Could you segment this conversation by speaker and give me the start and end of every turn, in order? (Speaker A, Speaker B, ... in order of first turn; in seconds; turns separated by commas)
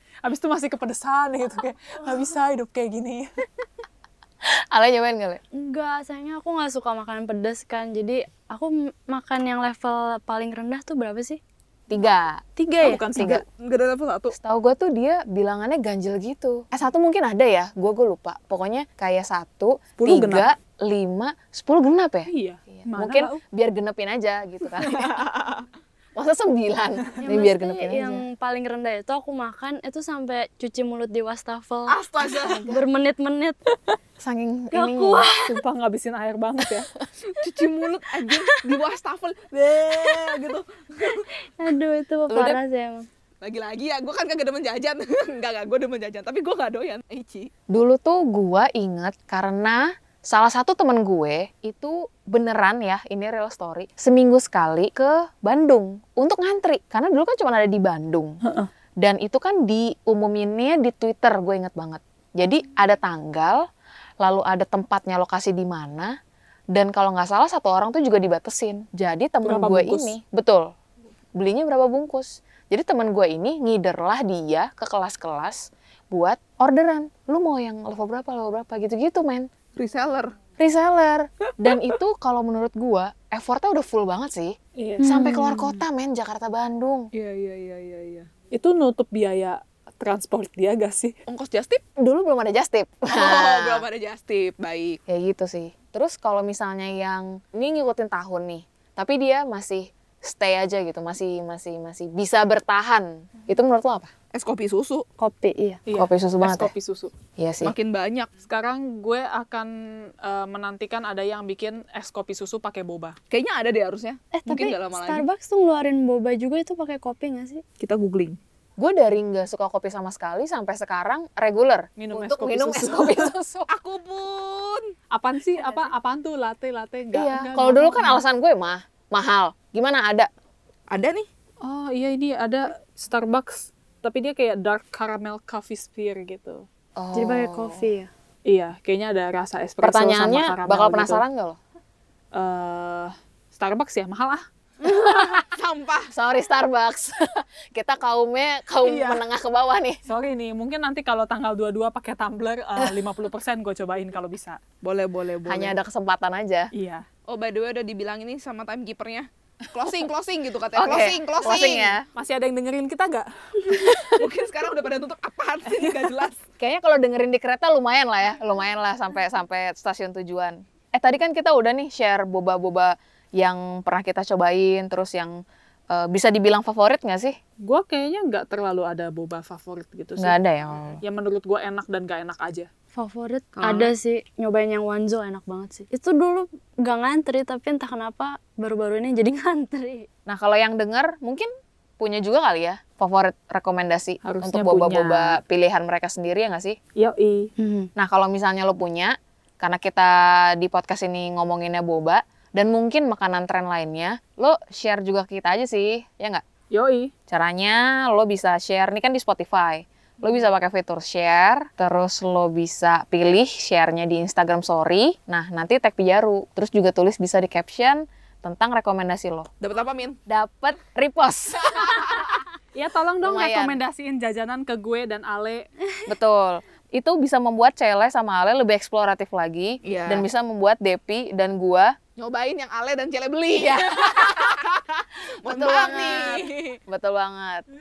Speaker A: 0.2-3.5, Speaker B: 4.4-5.4, Speaker C: 5.5-11.4, Speaker B: 11.9-12.4, Speaker C: 12.6-13.0, Speaker A: 12.8-13.4, Speaker B: 13.1-13.4, Speaker D: 13.2-14.3, Speaker B: 14.3-25.2, Speaker A: 20.0-20.5, Speaker A: 22.3-23.4, Speaker D: 24.8-25.6, Speaker B: 26.1-28.2, Speaker C: 27.2-33.6, Speaker D: 31.9-32.7, Speaker B: 34.2-35.2, Speaker C: 34.7-35.6, Speaker A: 35.4-36.9, Speaker D: 37.3-41.2, Speaker C: 38.3-38.6, Speaker C: 40.0-40.3, Speaker C: 41.0-43.1, Speaker B: 42.3-42.6, Speaker D: 43.4-47.5, Speaker B: 47.7-58.4, Speaker A: 58.4-58.7, Speaker B: 59.0-63.6, Speaker B: 64.2-66.1, Speaker B: 66.7-70.7, Speaker A: 69.4-70.1, Speaker B: 71.4-79.5, Speaker D: 79.8-80.3, Speaker B: 80.6-87.1, Speaker D: 81.6-81.9, Speaker A: 84.8-85.2, Speaker C: 85.0-85.8, Speaker D: 87.1-88.3, Speaker A: 88.5-91.2, Speaker D: 91.3-91.8, Speaker B: 92.0-93.8, Speaker D: 93.1-95.0, Speaker B: 95.1-104.1, Speaker D: 104.3-105.0, Speaker C: 105.2-105.8, Speaker A: 105.9-107.1, Speaker B: 105.9-106.7, Speaker B: 107.4-107.7, Speaker D: 107.6-108.3, Speaker A: 108.5-113.2, Speaker D: 113.3-115.2, Speaker C: 114.3-117.6, Speaker D: 117.8-118.4, Speaker B: 118.8-123.7, Speaker A: 122.0-123.3, Speaker D: 123.7-124.9, Speaker A: 125.1-128.2, Speaker B: 127.1-130.3, Speaker D: 130.9-131.3, Speaker A: 131.6-136.7, Speaker B: 136.9-137.8, Speaker C: 137.1-138.1, Speaker A: 138.4-141.2, Speaker B: 139.8-141.6, Speaker A: 142.3-144.4, Speaker C: 144.8-145.3, Speaker B: 144.8-145.4, Speaker D: 145.5-146.1, Speaker B: 146.1-150.0, Speaker A: 148.8-149.2, Speaker A: 150.1-154.6, Speaker D: 154.8-155.7, Speaker B: 155.4-156.7, Speaker A: 156.7-157.1, Speaker D: 157.3-161.9, Speaker B: 160.7-162.1, Speaker A: 162.1-164.2, Speaker D: 164.0-166.4, Speaker A: 165.7-166.0, Speaker B: 166.6-177.4, Speaker A: 177.6-180.3, Speaker B: 180.2-181.0, Speaker A: 181.0-182.7, Speaker C: 182.9-190.1, Speaker B: 183.6-183.9, Speaker B: 190.3-191.5, Speaker B: 192.0-196.8, Speaker A: 194.2-195.4, Speaker A: 196.9-197.5, Speaker C: 197.6-197.9, Speaker B: 197.9-206.4, Speaker A: 206.7-207.1, Speaker B: 207.3-219.5, Speaker D: 219.6-220.2, Speaker B: 220.3-222.3, Speaker A: 222.7-225.7, Speaker B: 223.2-223.8, Speaker B: 226.1-231.9, Speaker D: 229.8-230.2, Speaker D: 232.2-236.8, Speaker B: 233.6-234.6, Speaker B: 235.4-237.6